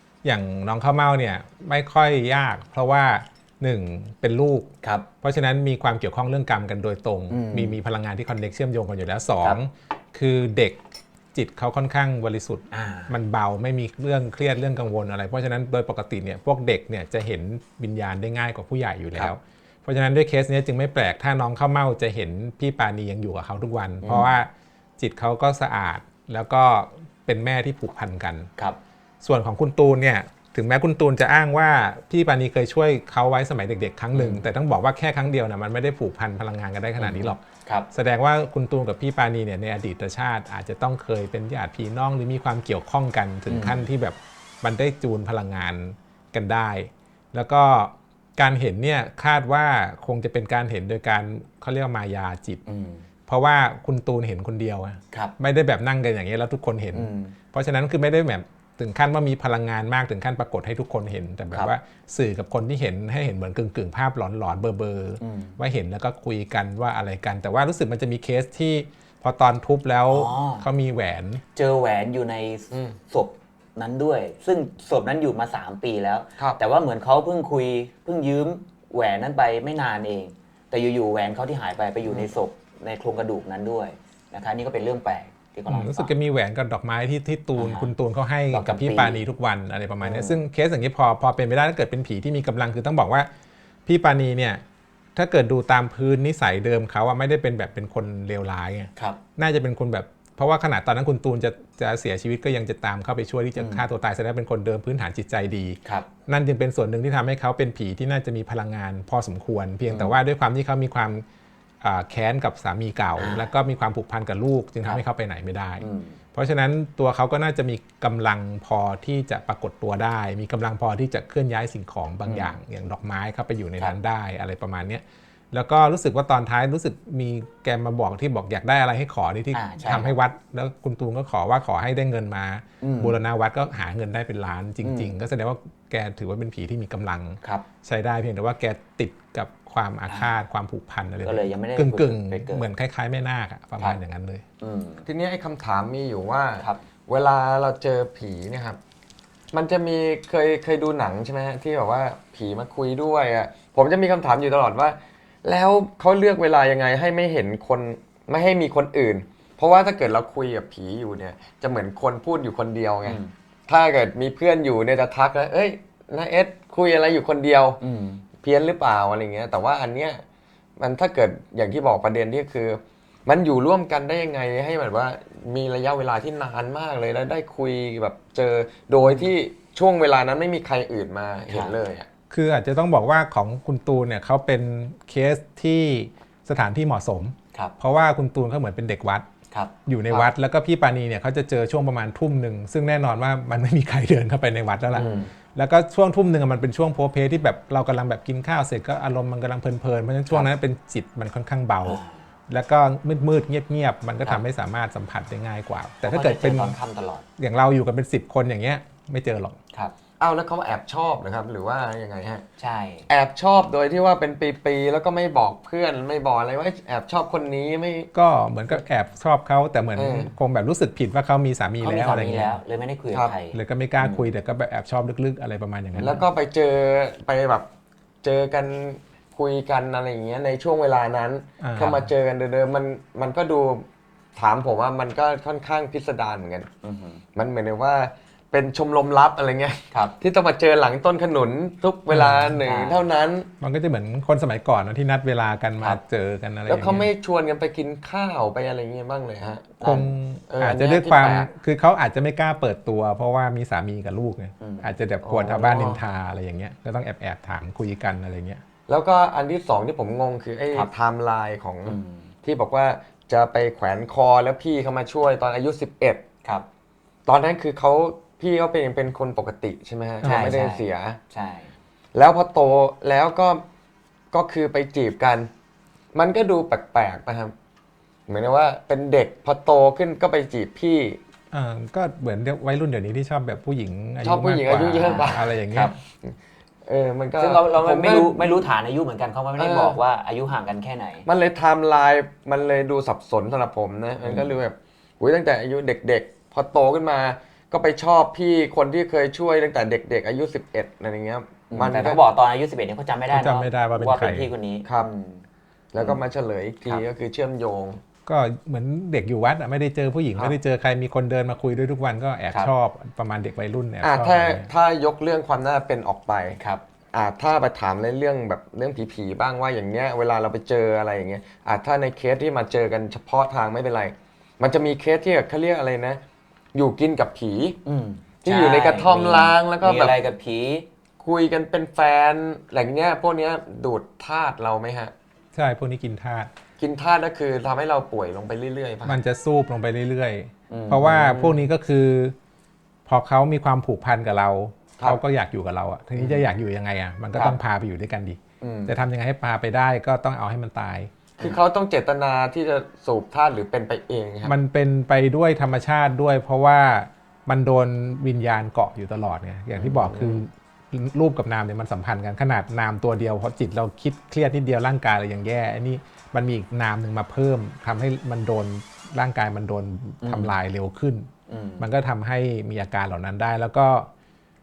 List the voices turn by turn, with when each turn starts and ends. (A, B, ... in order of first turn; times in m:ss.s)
0:00.2-0:04.7 A
0:05.2-0:10.8 A
0:07.3-0:07.8 B
0:11.3-0:28.5 A
0:12.7-0:13.1 B
0:24.0-0:24.4 B
0:29.2-0:52.6 A
0:34.1-0:34.4 B
0:37.0-0:37.9 B
0:43.5-0:43.9 B
0:52.6-0:53.0 B
0:53.3-1:11.4 A
0:56.9-0:57.3 B
1:05.2-1:05.6 B
1:10.1-1:10.6 B
1:11.5-1:26.1 B
1:22.0-1:22.3 C
1:25.7-1:33.3 A
1:27.6-1:27.9 B
1:28.5-1:29.2 B
1:30.0-1:30.4 B
1:33.8-1:34.6 A
1:35.2-1:51.2 A
1:43.6-1:43.8 B
1:49.9-1:50.2 B
1:51.8-2:24.4 A
1:53.2-1:53.5 B
1:55.8-1:56.2 B
2:02.2-2:02.6 B
2:09.5-2:10.2 B
2:12.8-2:13.2 B
2:14.8-2:15.1 B
2:21.2-2:22.6 B
2:24.6-2:25.0 B
2:25.0-2:28.8 C
2:29.5-2:47.8 C
2:43.0-2:43.3 B
2:47.8-2:48.2 B
2:48.4-2:50.2 C
2:50.8-3:02.1 C
3:01.5-3:01.8 B
3:02.3-3:09.2 A
3:09.8-3:26.8 A
3:14.9-3:15.3 C
3:14.9-3:15.3 B
3:21.8-3:22.1 B
3:26.0-3:27.2 B
3:27.4-3:29.6 A
3:30.2-3:32.4 C
3:32.6-3:33.1 B
3:33.1-3:38.1 C
3:38.1-3:42.5 A
3:39.9-3:40.3 C
3:41.8-3:44.3 B
3:43.5-3:46.2 A
3:46.0-3:47.7 C
3:48.2-3:56.7 C
3:51.6-3:52.1 A
3:56.8-3:57.2 B
3:57.3-4:03.5 C
4:02.1-4:02.6 A
4:02.6-4:03.1 B
4:03.6-4:07.1 A
4:06.7-4:09.8 C
4:09.8-4:10.1 B
4:09.8-4:18.6 A
4:10.5-4:11.5 C
4:14.6-4:14.9 B
4:15.2-4:16.0 C
4:18.9-4:26.2 C
4:21.8-4:22.3 B
4:27.2-4:31.2 C
4:30.2-4:30.5 A
4:30.2-4:31.7 B
4:32.1-4:33.6 C
4:34.3-4:35.5 C
4:36.1-4:37.5 C
4:38.3-4:41.2 C
4:41.5-4:45.9 A
4:44.2-4:48.6 C
4:45.0-4:45.9 B
4:47.4-4:51.2 B
4:49.6-4:50.0 C
4:51.2-5:02.2 C
5:01.7-5:05.4 B
5:03.3-5:04.5 A
5:05.9-5:08.0 C
5:08.2-5:14.7 A
5:14.0-5:16.6 C
5:16.6-5:16.8 B
5:17.1-5:26.2 C
5:26.7-5:27.8 C
5:27.8-5:30.8 B
5:28.4-5:30.1 C
5:31.2-5:35.1 C
5:35.5-5:36.5 A
5:36.8-5:39.2 C
5:39.0-5:42.3 A
5:40.7-5:41.6 B
5:43.0-5:51.1 A
5:48.6-5:48.9 B
5:51.4-5:54.5 C
5:54.4-6:11.3 A
5:59.8-6:00.4 C
6:10.2-6:10.5 B
6:11.5-6:11.9 B
6:11.8-6:14.1 A